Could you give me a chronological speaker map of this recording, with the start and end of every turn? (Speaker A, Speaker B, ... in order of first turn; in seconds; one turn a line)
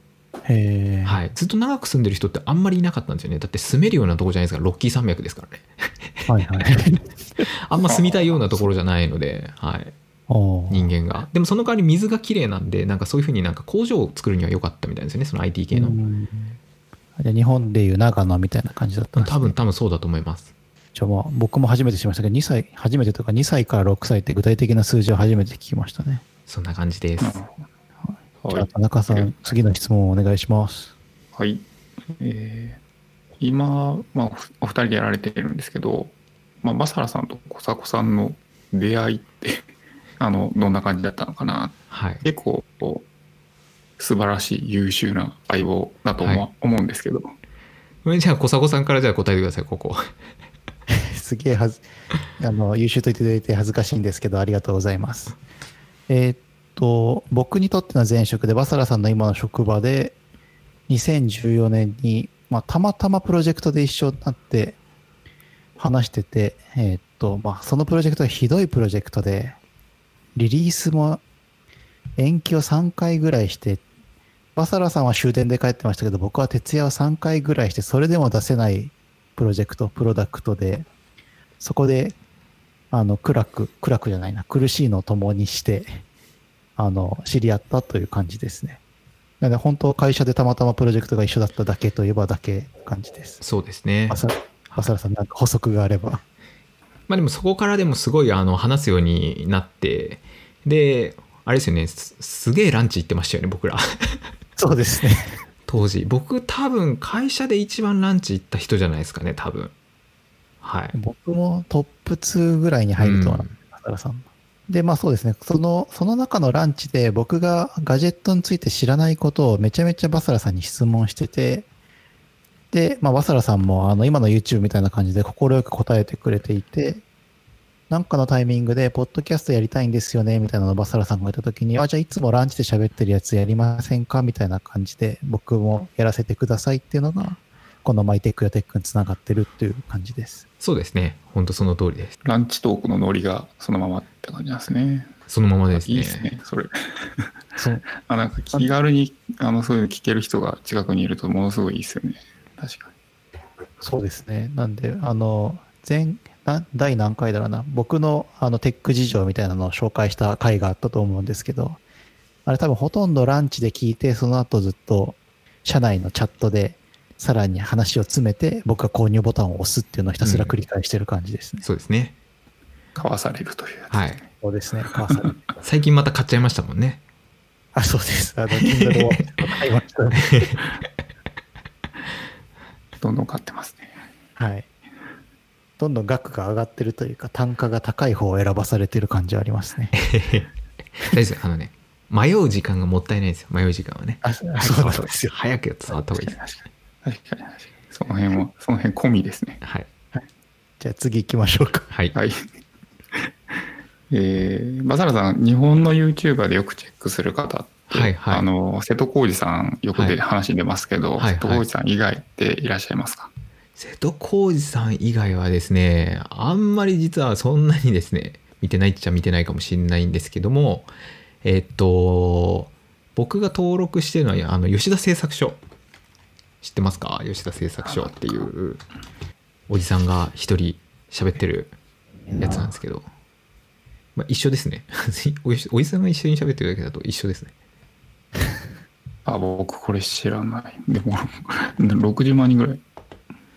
Speaker A: 0.5-1.2
Speaker B: 1.1-6.3
Speaker A: 6.3-7.5
Speaker B: 7.4-9.9
Speaker A: 10.3-10.9
Speaker B: 10.7-16.0
Speaker A: 15.7-16.6
Speaker A: 17.2-19.5
Speaker B: 19.2-20.5
Speaker A: 20.9-26.2
Speaker B: 26.5-27.4
Speaker C: 27.2-27.5
Speaker C: 28.4-29.4
Speaker A: 28.5-30.9
Speaker C: 31.4-32.8
Speaker C: 33.4-39.6
Speaker C: 40.2-43.1
Speaker B: 41.9-42.2
Speaker C: 44.0-47.3
Speaker B: 46.2-46.5
Speaker B: 48.0-50.1
Speaker A: 50.9-51.8
Speaker A: 52.4-55.4
Speaker A: 56.1-60.2
Speaker A: 60.9-64.8
Speaker A: 65.8-69.6
Speaker A: 70.3-71.2
Speaker A: 72.2-73.8
Speaker A: 74.5-80.9
Speaker A: 81.6-82.2
Speaker A: 82.9-86.0
Speaker A: 86.8-88.8
Speaker A: 89.4-93.4
Speaker B: 93.4-94.9
Speaker A: 94.1-96.2
Speaker B: 97.1-104.2
Speaker A: 104.6-105.4
Speaker B: 105.7-109.7
Speaker B: 110.6-111.0
Speaker A: 110.9-121.7
Speaker B: 113.0-113.6
Speaker A: 122.7-127.0
Speaker A: 127.9-140.4
Speaker B: 140.6-142.2
Speaker C: 142.2-145.2
Speaker B: 145.3-146.3
Speaker C: 145.7-147.3
Speaker A: 147.6-147.9
Speaker C: 148.0-152.9
Speaker A: 153.8-161.8
Speaker A: 162.5-171.7
Speaker B: 170.2-170.6
Speaker B: 171.6-172.2
Speaker C: 172.9-174.2
Speaker B: 173.9-174.2
Speaker A: 174.4-175.3
Speaker C: 175.1-175.3
Speaker B: 175.6-177.0
Speaker A: 177.7-180.5
Speaker B: 178.6-179.2
Speaker B: 180.2-180.6
Speaker C: 183.0-184.0
Speaker A: 184.4-184.7
Speaker A: 185.8-189.9
Speaker B: 189.9-196.4
Speaker A: 194.2-195.3
Speaker C: 196.3-199.6
Speaker B: 199.6-199.9
Speaker A: 200.8-201.9
Speaker C: 202.1-202.5
Speaker C: 204.1-213.3
Speaker B: 207.9-208.5
Speaker B: 211.2-211.7
Speaker B: 213.8-220.9
Speaker B: 221.4-225.6
Speaker B: 226.6-228.8
Speaker B: 229.7-231.8
Speaker B: 232.4-233.1
Speaker B: 234.2-237.5
Speaker C: 239.3-242.8